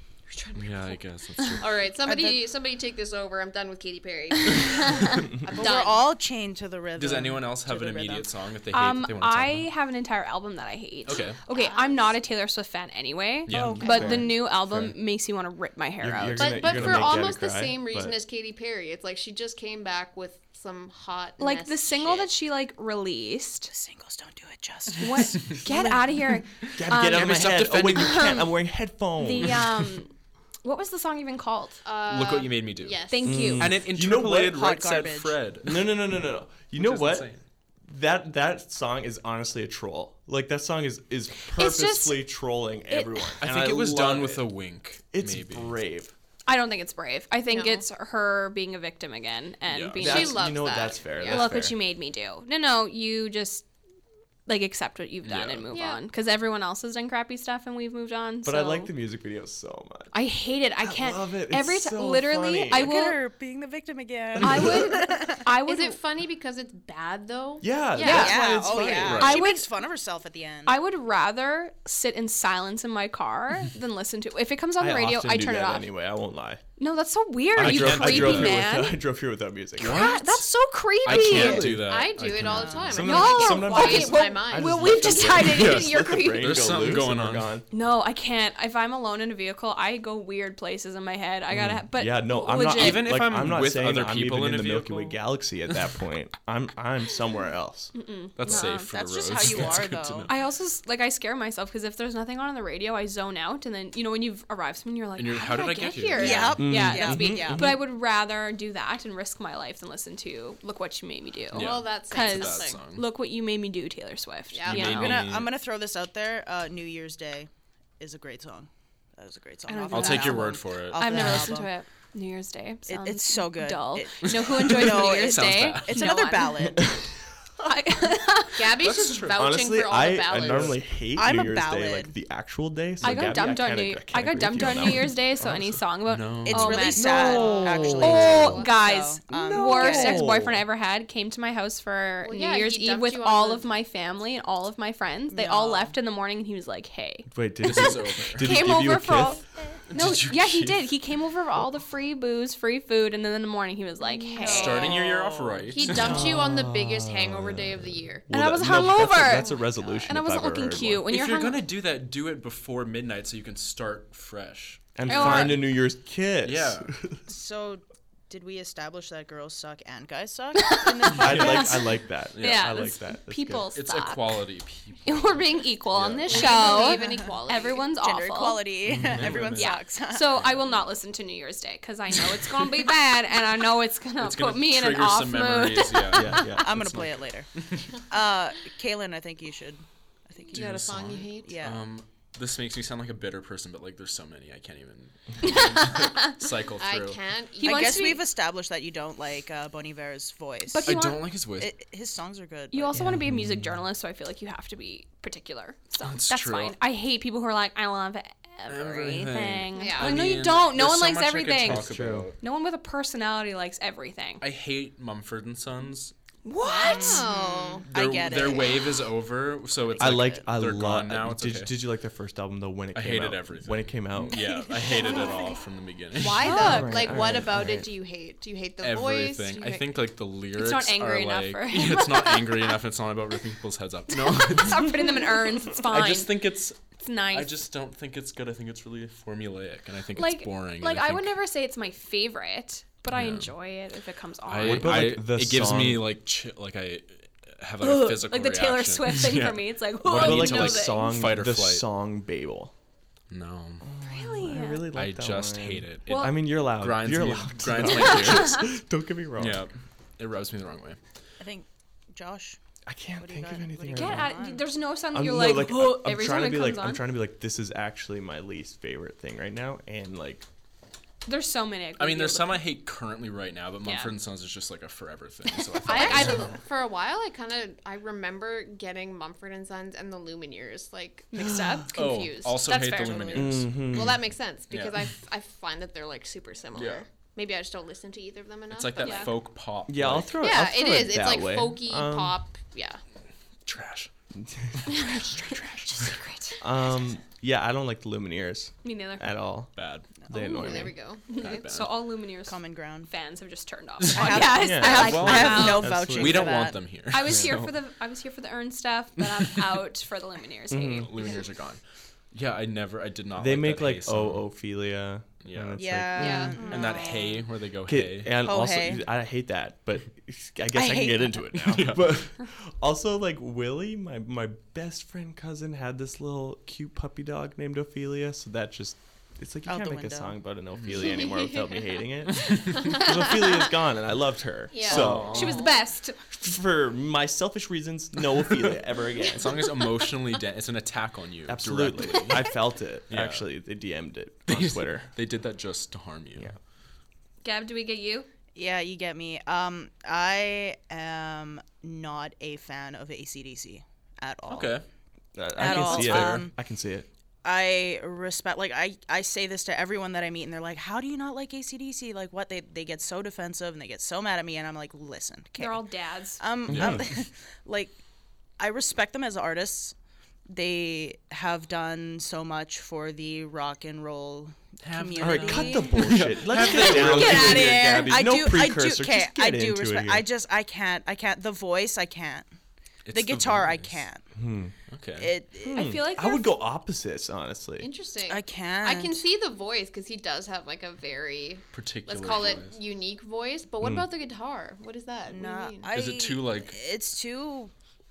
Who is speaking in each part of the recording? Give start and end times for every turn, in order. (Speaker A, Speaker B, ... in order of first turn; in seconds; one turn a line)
Speaker A: 0.3-1.0
Speaker B: 0.6-1.8
Speaker A: 1.6-6.1
Speaker C: 2.0-2.4
Speaker C: 5.4-8.3
Speaker B: 7.0-9.7
Speaker D: 8.7-17.1
Speaker B: 11.1-11.4
Speaker A: 11.5-12.1
Speaker B: 13.5-13.8
Speaker C: 13.5-14.3
Speaker E: 13.6-14.9
Speaker A: 13.8-14.2
Speaker E: 16.0-18.2
Speaker A: 16.4-22.3
Speaker D: 21.4-23.7
Speaker C: 23.7-25.9
Speaker D: 25.0-28.5
Speaker E: 26.8-29.9
Speaker B: 27.0-28.3
Speaker D: 29.2-30.1
Speaker D: 30.6-31.8
Speaker A: 31.9-33.5
Speaker B: 32.1-33.0
Speaker D: 33.1-33.7
Speaker E: 33.2-34.6
Speaker B: 33.6-36.1
Speaker C: 34.4-35.4
Speaker E: 35.6-37.3
Speaker B: 36.8-37.4
Speaker E: 37.9-44.5
Speaker D: 41.5-42.2
Speaker B: 43.4-45.8
Speaker E: 45.1-46.1
Speaker D: 46.5-50.5
Speaker A: 47.5-47.8
Speaker B: 49.7-50.0
Speaker E: 50.0-51.8
Speaker A: 50.0-51.5
Speaker D: 51.3-53.7
Speaker D: 54.5-58.9
Speaker B: 55.2-55.7
Speaker A: 55.7-56.0
Speaker E: 58.5-60.1
Speaker D: 60.1-63.2
Speaker E: 60.8-62.9
Speaker C: 62.7-65.5
Speaker E: 64.4-64.8
Speaker D: 64.4-66.0
Speaker A: 65.6-68.4
Speaker E: 67.6-69.4
Speaker D: 68.0-68.4
Speaker C: 68.1-70.8
Speaker B: 69.0-69.4
Speaker D: 69.2-69.7
Speaker D: 70.7-75.9
Speaker E: 74.8-76.6
Speaker D: 76.8-79.0
Speaker E: 77.6-80.1
Speaker B: 77.6-78.6
Speaker B: 79.8-80.5
Speaker D: 79.8-81.8
Speaker B: 81.0-83.0
Speaker E: 81.1-82.0
Speaker A: 81.8-85.3
Speaker C: 82.4-82.8
Speaker E: 82.9-87.7
Speaker D: 83.0-86.9
Speaker B: 85.4-87.5
Speaker D: 87.7-93.2
Speaker E: 91.9-97.9
Speaker B: 92.7-95.2
Speaker D: 98.0-98.9
Speaker B: 98.4-100.4
Speaker C: 98.5-100.3
Speaker D: 100.3-115.1
Speaker B: 105.2-106.6
Speaker C: 106.1-107.8
Speaker E: 106.6-107.8
Speaker A: 111.5-112.8
Speaker B: 111.5-113.0
Speaker A: 114.5-115.1
Speaker B: 114.7-115.5
Speaker C: 114.9-121.7
Speaker D: 119.7-126.8
Speaker B: 119.9-121.4
Speaker C: 122.9-127.0
Speaker B: 124.2-126.0
Speaker D: 127.6-128.8
Speaker A: 128.6-130.8
Speaker B: 128.8-129.5
Speaker E: 129.2-135.8
Speaker B: 130.3-130.8
Speaker C: 131.1-132.1
Speaker D: 133.0-155.0
Speaker B: 136.1-136.9
Speaker C: 136.4-140.3
Speaker E: 136.9-138.6
Speaker A: 137.4-138.7
Speaker E: 139.3-140.6
Speaker A: 142.2-143.7
Speaker C: 145.3-145.9
Speaker E: 147.3-149.4
Speaker B: 147.6-148.5
Speaker B: 149.9-150.9
Speaker C: 154.1-155.7
Speaker A: 154.4-154.8
Speaker B: 154.5-156.2
Speaker A: 155.7-158.3
Speaker E: 155.9-161.0
Speaker D: 158.3-161.6
Speaker B: 161.1-165.7
Speaker E: 164.9-167.2
Speaker D: 165.1-165.7
Speaker B: 166.4-166.9
Speaker C: 167.3-171.8
Speaker D: 170.6-174.4
Speaker E: 171.2-173.7
Speaker B: 172.3-172.7
Speaker B: 173.7-176.4
Speaker D: 175.1-178.6
Speaker A: 176.3-177.9
Speaker C: 176.5-177.4
Speaker C: 177.9-180.4
Speaker E: 178.9-179.4
Speaker B: 178.9-179.8
Speaker D: 179.6-186.5
Speaker B: 184.2-187.9
Speaker E: 186.1-187.1
Speaker C: 186.6-190.7
Speaker A: 190.5-191.6
Speaker B: 190.5-197.2
Speaker C: 191.4-191.8
Speaker D: 195.4-196.3
Speaker A: 196.8-198.2
Speaker D: 197.6-198.2
Speaker C: 197.6-203.1
Speaker D: 200.7-201.2
Speaker B: 200.8-201.7
Speaker D: 202.7-211.9
Speaker E: 202.9-203.8
Speaker B: 206.0-206.8
Speaker B: 208.7-212.4
Speaker A: 209.7-210.2
Speaker E: 211.6-212.3
Speaker D: 212.4-214.4
Speaker B: 214.4-216.1
Speaker D: 216.4-217.3
Speaker A: 216.6-217.9
Speaker C: 216.7-218.9
Speaker B: 217.9-221.8
Speaker C: 219.9-220.4
Speaker E: 220.0-224.4
Speaker B: 222.9-226.6
Speaker C: 224.4-225.5
Speaker A: 226.1-229.9
Speaker D: 226.4-227.1
Speaker E: 226.5-227.9
Speaker B: 228.8-235.0
Speaker D: 230.6-232.8
Speaker D: 234.1-237.6
Speaker B: 235.7-241.3
Speaker D: 240.2-245.1
Speaker B: 243.1-243.5
Speaker B: 244.5-251.9
Speaker E: 244.6-246.1
Speaker D: 247.8-251.2
Speaker E: 250.1-252.7
Speaker B: 253.3-253.8
Speaker E: 253.8-259.7
Speaker D: 254.1-254.9
Speaker B: 254.9-258.7
Speaker D: 256.1-256.4
Speaker D: 257.9-258.6
Speaker B: 259.4-261.0
Speaker C: 261.4-262.6
Speaker E: 262.9-264.4
Speaker C: 263.2-264.6
Speaker D: 263.9-267.1
Speaker E: 265.1-270.4
Speaker D: 271.2-272.7
Speaker B: 272.0-276.5
Speaker D: 273.8-274.1
Speaker D: 275.8-276.5
Speaker A: 275.9-282.6
Speaker D: 281.3-283.7
Speaker B: 281.9-284.1
Speaker E: 283.3-284.2
Speaker A: 283.9-289.4
Speaker B: 284.7-285.0
Speaker B: 286.8-287.0
Speaker B: 288.7-290.5
Speaker D: 289.0-289.3
Speaker E: 289.9-292.4
Speaker A: 290.4-293.0
Speaker B: 293.7-294.1
Speaker E: 294.3-295.2
Speaker D: 294.9-296.6
Speaker E: 296.6-299.7
Speaker D: 298.8-299.4
Speaker B: 299.8-300.1
Speaker E: 300.3-300.9
Speaker A: 300.3-301.3
Speaker B: 301.3-301.9
Speaker D: 301.3-305.9
Speaker C: 302.4-303.1
Speaker B: 304.0-307.8
Speaker C: 304.1-306.8
Speaker E: 304.5-306.7
Speaker D: 307.1-311.1
Speaker E: 307.3-307.6
Speaker E: 310.7-311.1
Speaker B: 310.9-311.8
Speaker B: 312.3-314.5
Speaker E: 313.4-316.6
Speaker B: 315.4-315.9
Speaker C: 315.8-317.3
Speaker A: 316.2-316.8
Speaker D: 316.6-316.8
Speaker B: 316.6-318.4
Speaker E: 317.9-335.4
Speaker C: 318.4-319.1
Speaker C: 320.7-321.4
Speaker B: 321.7-322.2
Speaker C: 329.7-330.4
Speaker A: 330.9-332.0
Speaker B: 332.5-332.8
Speaker A: 332.6-333.6
Speaker A: 334.7-335.7
Speaker B: 334.9-335.7
Speaker D: 335.3-336.2
Speaker E: 336.3-339.5
Speaker B: 339.3-342.5
Speaker E: 341.5-345.1
Speaker B: 343.1-343.5
Speaker B: 344.5-346.6
Speaker D: 347.4-348.3
Speaker C: 348.6-354.8
Speaker B: 354.5-354.9
Speaker E: 355.4-357.1
Speaker C: 355.6-356.5
Speaker B: 355.6-356.4
Speaker C: 357.4-365.9
Speaker D: 365.6-366.4
Speaker C: 366.4-367.9
Speaker E: 366.7-367.1
Speaker B: 366.7-367.1
Speaker C: 368.6-369.9
Speaker C: 370.5-382.4
Speaker B: 374.8-378.1
Speaker E: 375.2-380.2
Speaker D: 376.6-378.1
Speaker B: 383.1-384.1
Speaker C: 383.1-384.2
Speaker E: 384.4-384.7
Speaker B: 384.9-385.3
Speaker C: 385.2-386.0
Speaker E: 385.6-387.9
Speaker D: 385.7-386.6
Speaker A: 387.8-395.9
Speaker C: 388.3-389.2
Speaker B: 391.7-392.8
Speaker E: 393.8-394.1
Speaker C: 395.3-397.7
Speaker B: 395.9-396.8